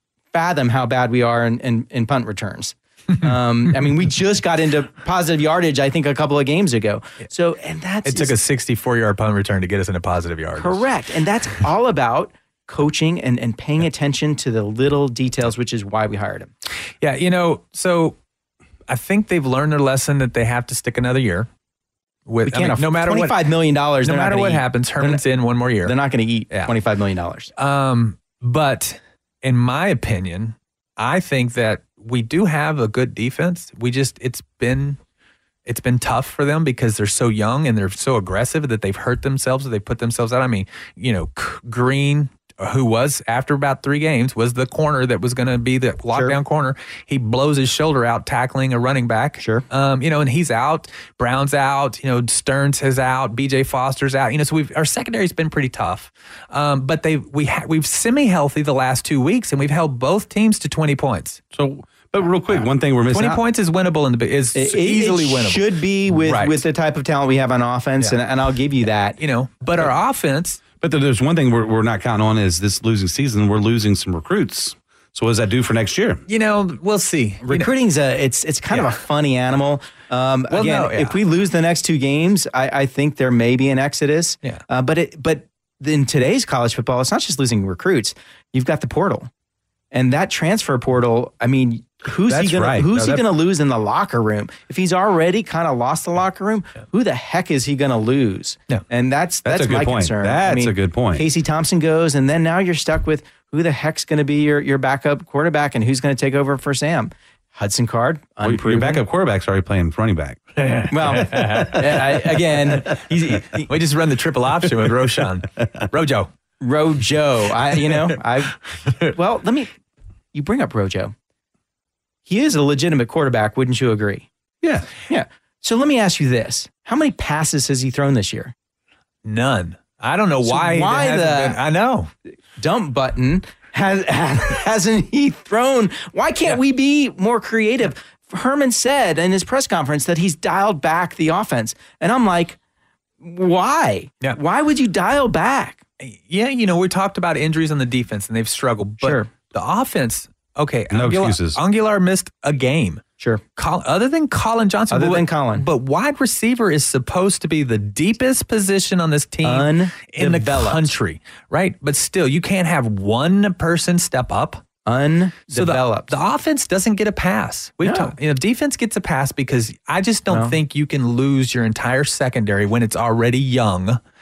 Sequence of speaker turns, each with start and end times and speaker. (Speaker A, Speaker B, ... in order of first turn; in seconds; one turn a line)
Speaker A: 0.3-8.4
Speaker B: 8.1-10.8
Speaker A: 10.6-16.5
Speaker B: 17.0-18.2
Speaker B: 18.9-21.5
Speaker B: 22.3-23.5
Speaker A: 22.4-25.2
Speaker B: 24.0-25.9
Speaker A: 25.8-27.5
Speaker B: 27.6-35.0
Speaker B: 35.7-61.4
Speaker A: 49.4-49.6
Speaker C: 61.5-63.4
Speaker B: 62.5-66.6
Speaker A: 64.5-69.2
Speaker B: 69.2-70.6
Speaker C: 70.8-76.2
Speaker B: 76.3-77.7
Speaker A: 77.4-89.3
Speaker B: 80.5-81.2
Speaker A: 89.9-109.0
Speaker C: 92.2-93.2
Speaker C: 99.4-101.3
Speaker C: 108.4-110.5
Speaker B: 110.6-116.3
Speaker A: 110.9-113.7
Speaker A: 116.6-119.7
Speaker A: 120.3-121.1
Speaker A: 122.3-124.3
Speaker C: 124.6-124.9
Speaker A: 125.1-128.5
Speaker B: 129.2-132.1
Speaker A: 130.5-131.6
Speaker A: 132.6-142.6
Speaker A: 143.2-145.8
Speaker B: 146.0-153.0
Speaker A: 149.0-149.3
Speaker C: 150.9-151.6
Speaker B: 153.6-164.6
Speaker A: 154.9-155.7
Speaker A: 159.4-160.9
Speaker A: 164.8-166.1
Speaker B: 165.5-174.0
Speaker A: 167.8-168.1
Speaker A: 170.3-170.6